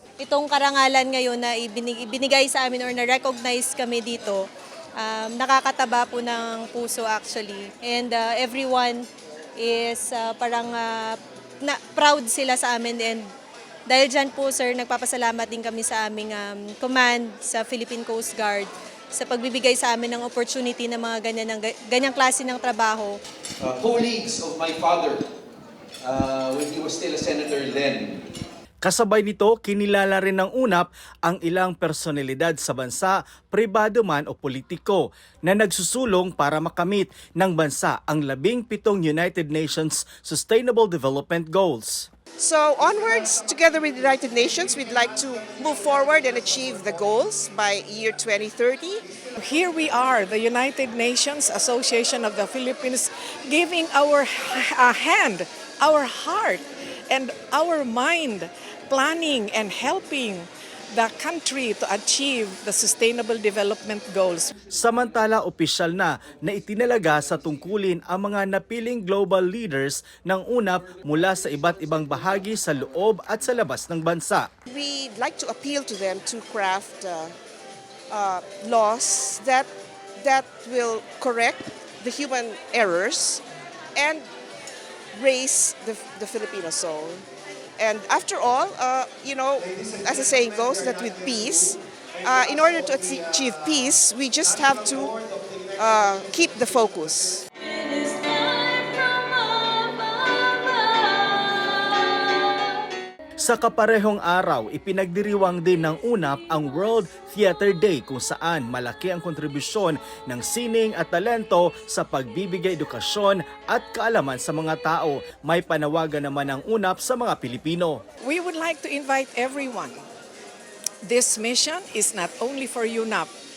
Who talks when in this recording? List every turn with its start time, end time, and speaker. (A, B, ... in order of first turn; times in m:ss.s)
0:00.2-0:04.4 A
0:05.0-0:09.0 A
0:09.6-0:13.2 A
0:13.9-0:23.2 A
0:23.6-0:25.3 B
0:26.0-0:28.3 B
0:28.8-0:42.1 C
0:42.4-0:49.1 D
0:49.4-1:04.5 E
1:04.7-1:14.5 C
1:14.7-1:17.4 D
1:18.1-1:23.4 D
1:24.0-1:24.3 D
1:25.1-1:27.2 D
1:27.8-1:35.2 D
1:35.8-1:37.4 D
1:37.7-1:42.1 A
1:43.4-1:58.0 C
1:58.2-2:00.0 E
2:01.0-2:03.3 E